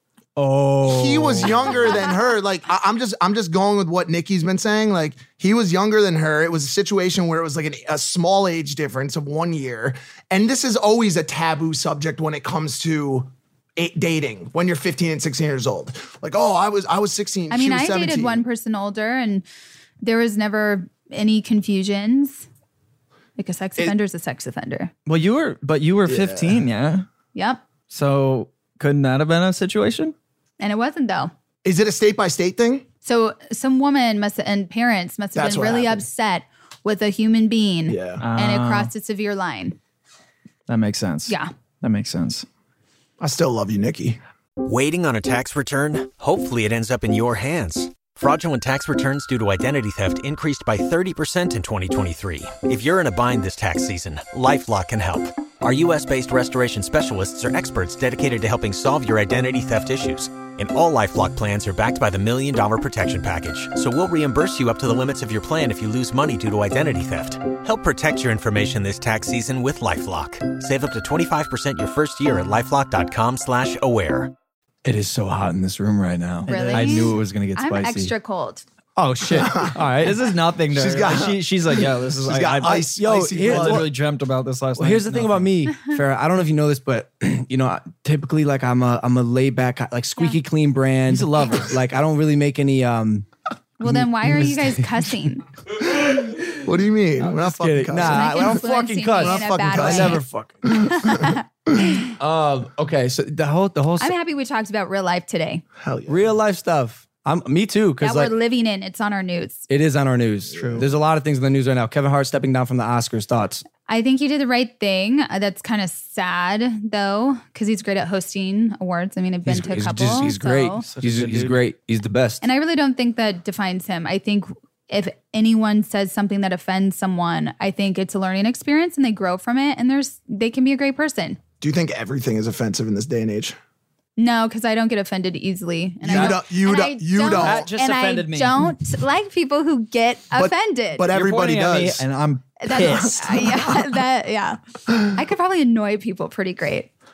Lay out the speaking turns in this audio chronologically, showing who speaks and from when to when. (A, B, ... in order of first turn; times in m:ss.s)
0:00.4-0:01.8 A
0:00.8-0:18.4 B
0:17.5-0:19.4 C
0:20.0-0:22.5 C
0:23.4-0:24.9 C
0:25.1-0:27.0 D
0:26.1-0:26.6 B
0:27.4-0:27.6 C
0:27.9-0:30.2 D
0:30.6-0:31.3 C
0:31.6-0:32.8 B
0:33.0-0:39.8 C
0:35.4-0:36.0 B
0:37.9-0:38.3 B
0:38.2-0:38.9 D
0:40.7-0:42.5 D
0:43.2-0:44.2 B
0:44.6-1:14.3 E
1:14.8-1:18.1 A
1:16.5-1:17.1 D
1:16.5-1:18.6 C
1:19.0-1:20.2 A
1:19.4-1:19.7 B
1:19.8-1:25.5 D
1:20.7-1:23.9 B
1:22.6-1:23.9 A
1:24.8-1:33.3 A
1:31.1-1:31.7 D
1:33.8-1:35.4 C
1:33.8-1:34.9 A
1:35.9-1:38.6 B
1:37.2-1:40.9 A
1:38.0-1:40.2 C
1:39.2-1:41.3 B
1:40.8-1:41.4 C
1:42.2-1:44.2 A
1:44.0-1:45.6 C
1:45.8-1:46.3 B
1:46.1-1:48.3 A
1:48.0-1:49.6 C
1:49.7-1:53.6 A
1:50.5-1:50.9 B
1:50.6-1:50.8 D
1:53.9-2:00.8 C
1:59.4-2:02.4 A
2:00.8-2:01.6 D
2:02.4-2:11.4 C
2:11.6-2:13.6 B
2:14.2-2:21.1 C
2:16.0-2:17.7 B
2:16.1-2:16.4 D
2:17.2-2:18.7 D
2:20.4-2:22.0 B
2:21.1-2:23.5 D
2:22.6-2:26.9 C
2:22.8-2:23.1 B